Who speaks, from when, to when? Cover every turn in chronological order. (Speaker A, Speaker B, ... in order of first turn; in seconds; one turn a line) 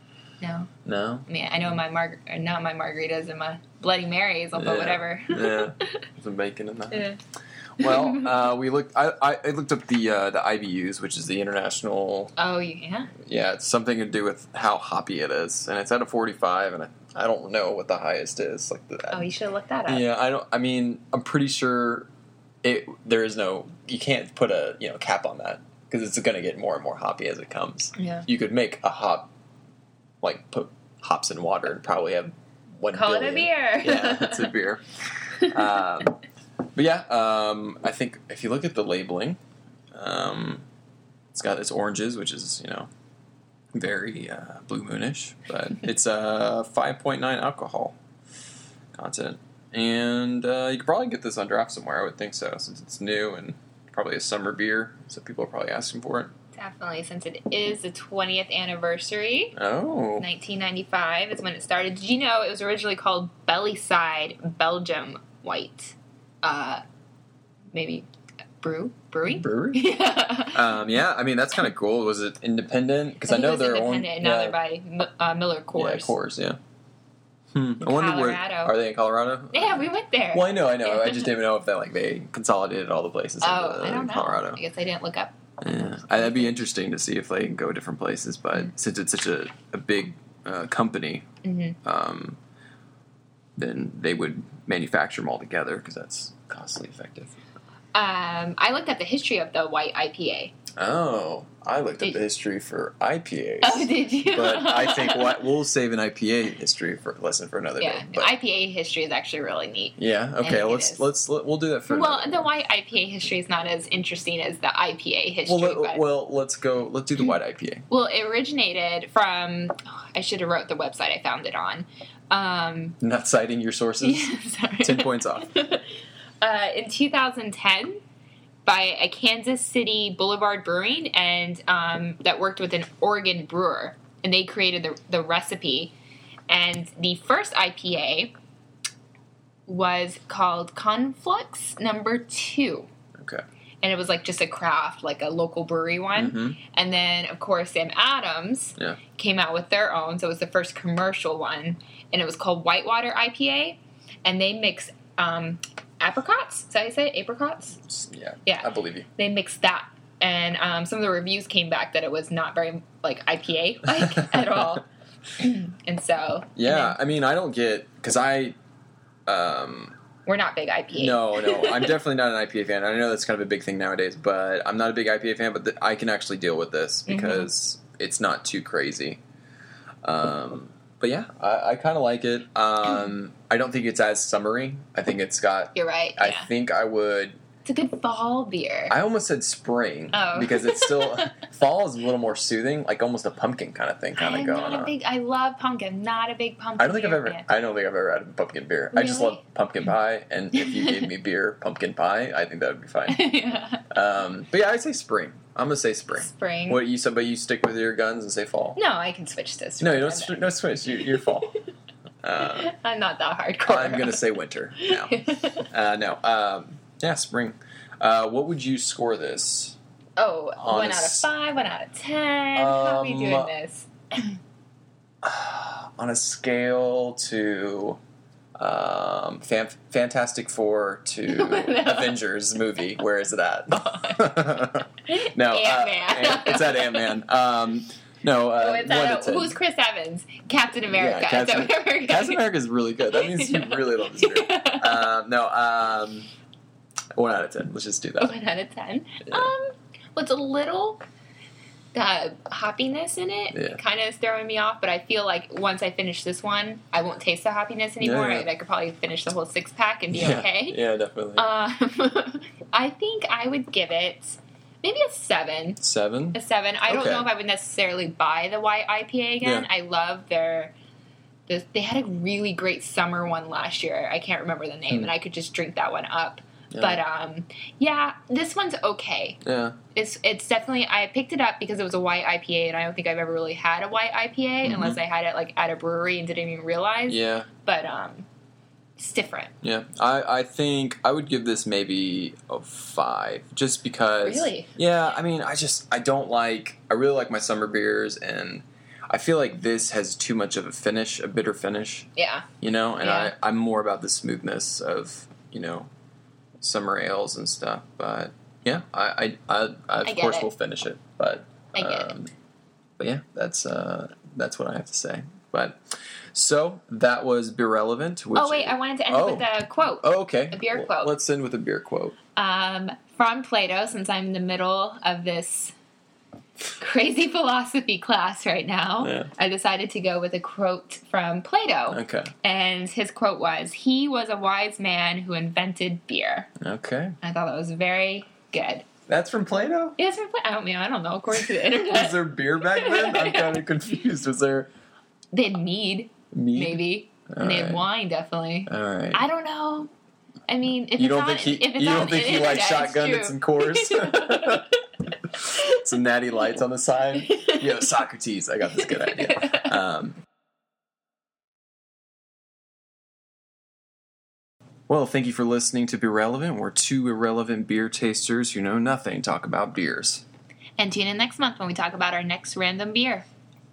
Speaker A: 0.4-0.7
Speaker B: 0.8-1.3
Speaker A: 1.3-5.9
Speaker B: 4.5-7.1
Speaker A: 6.9-7.2
Speaker B: 7.8-12.3
Speaker A: 7.8-8.4
Speaker A: 12.4-13.1
Speaker B: 13.2-19.3
Speaker A: 19.1-20.1
Speaker B: 19.9-22.1
Speaker B: 22.6-29.3
Speaker A: 27.9-28.3
Speaker B: 30.2-36.2
Speaker A: 32.9-34.5
Speaker A: 35.4-35.8
Speaker B: 36.7-39.4
Speaker B: 39.9-40.6
Speaker B: 41.3-42.9
Speaker B: 43.7-48.0
Speaker B: 48.9-56.3
Speaker A: 56.5-59.5
Speaker B: 59.5-60.3
Speaker A: 60.2-66.8
Speaker A: 67.7-68.1
Speaker A: 68.6-70.8
Speaker B: 69.2-69.8
Speaker B: 70.5-74.6
Speaker A: 73.2-76.1
Speaker B: 75.7-76.6
Speaker B: 77.5-84.6
Speaker A: 77.8-78.7
Speaker A: 79.5-81.3
Speaker A: 83.4-85.3
Speaker B: 85.6-91.2
Speaker A: 85.9-86.5
Speaker A: 91.4-91.8
Speaker B: 91.8-92.4
Speaker B: 93.6-97.3
Speaker A: 97.9-100.5
Speaker B: 100.8-108.3
Speaker A: 103.6-105.5
Speaker A: 107.8-111.1
Speaker B: 110.0-112.5
Speaker A: 111.9-116.0
Speaker B: 115.5-117.8
Speaker A: 117.9-123.0
Speaker B: 123.0-125.5
Speaker A: 124.0-125.9
Speaker A: 126.4-128.0
Speaker A: 128.6-135.9
Speaker A: 136.5-138.3
Speaker A: 139.7-142.9
Speaker B: 143.2-143.4
Speaker A: 143.8-157.8
Speaker B: 146.1-146.6
Speaker B: 157.8-159.1
Speaker A: 158.4-164.9
Speaker A: 165.4-167.0
Speaker B: 166.6-168.6
Speaker B: 169.3-169.9
Speaker A: 170.2-171.9
Speaker B: 170.9-179.2
Speaker A: 177.1-177.5
Speaker B: 180.0-187.4
Speaker A: 185.7-186.5
Speaker A: 187.6-188.9
Speaker B: 188.9-194.9
Speaker A: 190.1-191.3
Speaker A: 194.2-197.5
Speaker B: 196.8-203.3
Speaker A: 198.9-199.4
Speaker A: 200.5-201.1
Speaker A: 203.1-203.8
Speaker B: 203.9-208.8
Speaker A: 206.1-206.8
Speaker A: 208.7-210.5
Speaker B: 209.8-211.6
Speaker B: 212.2-212.7
Speaker A: 212.4-214.3
Speaker B: 213.6-219.8
Speaker A: 214.8-215.7
Speaker A: 220.2-224.4
Speaker B: 220.6-221.3
Speaker B: 222.5-223.5
Speaker B: 225.2-228.0
Speaker B: 228.6-239.6
Speaker A: 231.3-232.2
Speaker A: 233.7-234.3
Speaker A: 235.1-237.2
Speaker A: 238.6-242.4
Speaker B: 240.9-246.3
Speaker A: 243.0-245.1
Speaker B: 247.1-248.4
Speaker A: 248.2-251.0
Speaker B: 249.2-249.5
Speaker A: 251.9-260.8
Speaker B: 253.5-253.8
Speaker B: 258.0-258.5
Speaker B: 260.1-261.5
Speaker A: 261.4-265.8
Speaker B: 265.8-267.3
Speaker A: 266.3-270.7
Speaker B: 269.4-269.7
Speaker A: 271.5-279.4
Speaker B: 276.7-277.0
Speaker B: 279.4-279.8
Speaker A: 279.9-288.3
Speaker B: 284.6-285.0
Speaker B: 287.1-287.5
Speaker A: 289.0-289.5
Speaker B: 289.6-302.1
Speaker A: 294.2-294.7
Speaker A: 302.1-302.5
Speaker B: 302.6-305.9
Speaker A: 303.0-303.3
Speaker B: 306.6-312.3
Speaker A: 310.0-310.5
Speaker A: 311.7-312.1
Speaker B: 313.0-315.8
Speaker B: 316.3-322.1
Speaker A: 318.3-321.1
Speaker A: 322.4-325.7
Speaker A: 326.8-336.5
Speaker B: 329.0-329.3
Speaker B: 331.9-332.3
Speaker B: 336.6-337.1
Speaker A: 337.2-338.9
Speaker B: 339.1-340.0
Speaker A: 340.0-343.8
Speaker B: 341.4-344.7
Speaker A: 345.3-349.9
Speaker B: 346.3-347.9
Speaker B: 348.7-349.2
Speaker A: 350.5-354.8
Speaker B: 350.9-354.8
Speaker B: 355.3-360.2
Speaker A: 357.3-357.8
Speaker A: 358.7-359.7
Speaker B: 364.9-370.2
Speaker A: 370.8-373.3